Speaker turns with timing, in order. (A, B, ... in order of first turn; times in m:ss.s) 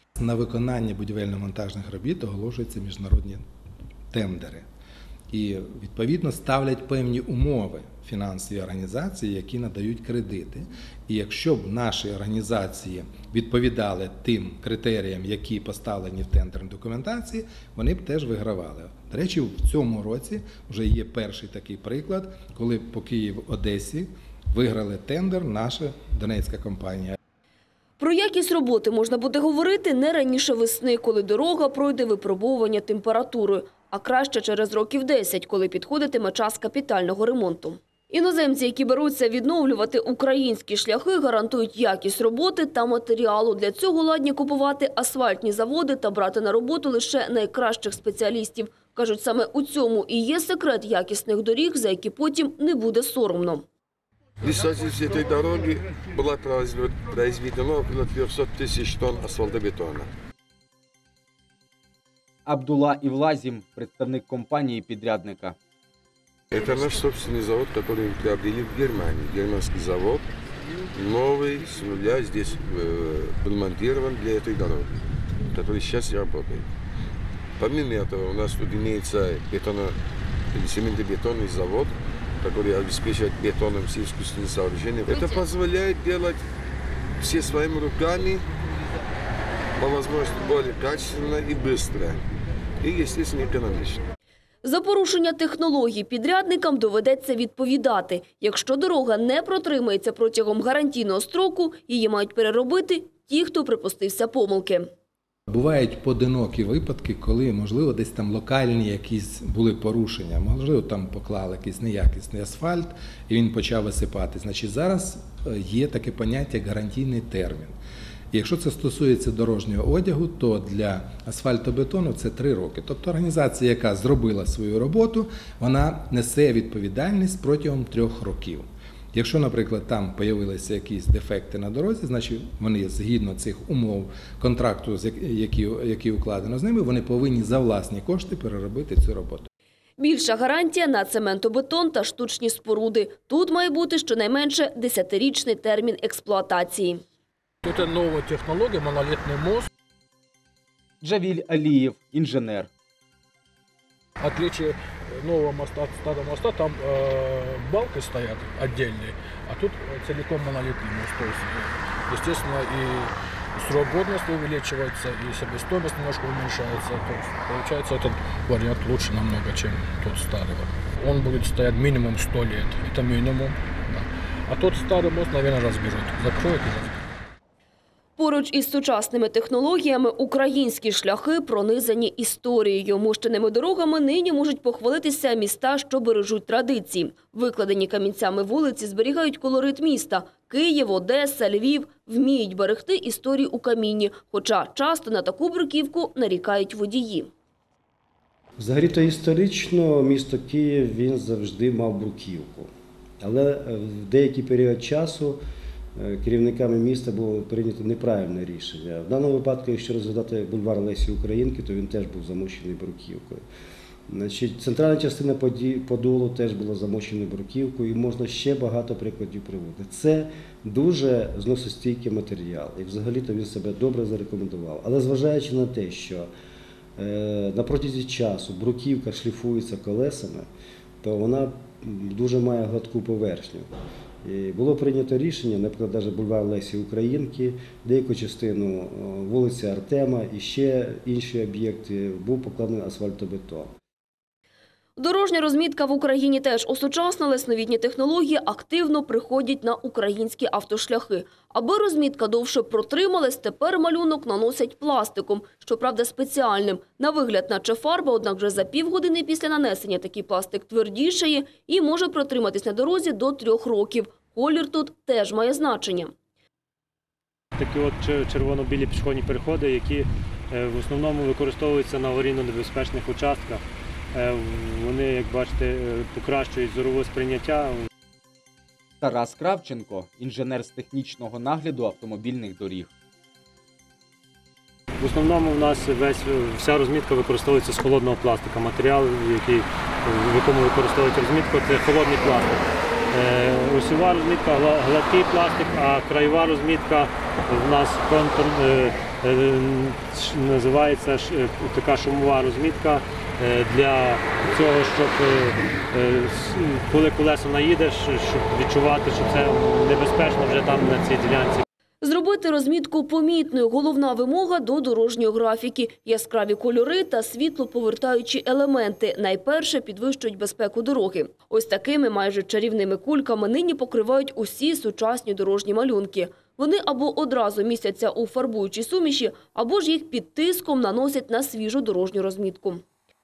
0:00.2-0:03.4 A
0:04.1-0:04.6 A
0:05.3-0:27.2 A
0:28.0-0:53.6 B
0:54.4-1:00.1 C
1:02.4-1:05.6 D
1:06.5-1:10.3 C
1:10.9-1:16.7 C
1:17.6-1:20.0 C
1:20.5-1:26.4 C
1:27.2-1:28.4 C
1:29.8-1:32.2 C
1:32.8-1:34.0 C
1:34.6-1:44.9 B
1:45.5-1:57.8 A
1:58.3-2:19.5 A
2:20.0-2:27.0 B
2:27.6-2:29.7 E
2:31.0-2:32.7 D
2:34.2-2:57.0 E
2:58.2-3:17.3 B
3:18.6-3:22.7 F
3:23.2-3:25.4 F
3:26.0-3:33.4 F
3:34.1-3:46.3 F
3:47.0-3:50.5 F
3:51.0-3:53.7 F
3:54.2-4:03.7 F
4:05.0-4:26.1 B
4:27.6-4:37.9 G
4:39.0-4:42.9 D
4:45.0-5:11.6 G
5:12.0-5:32.8 B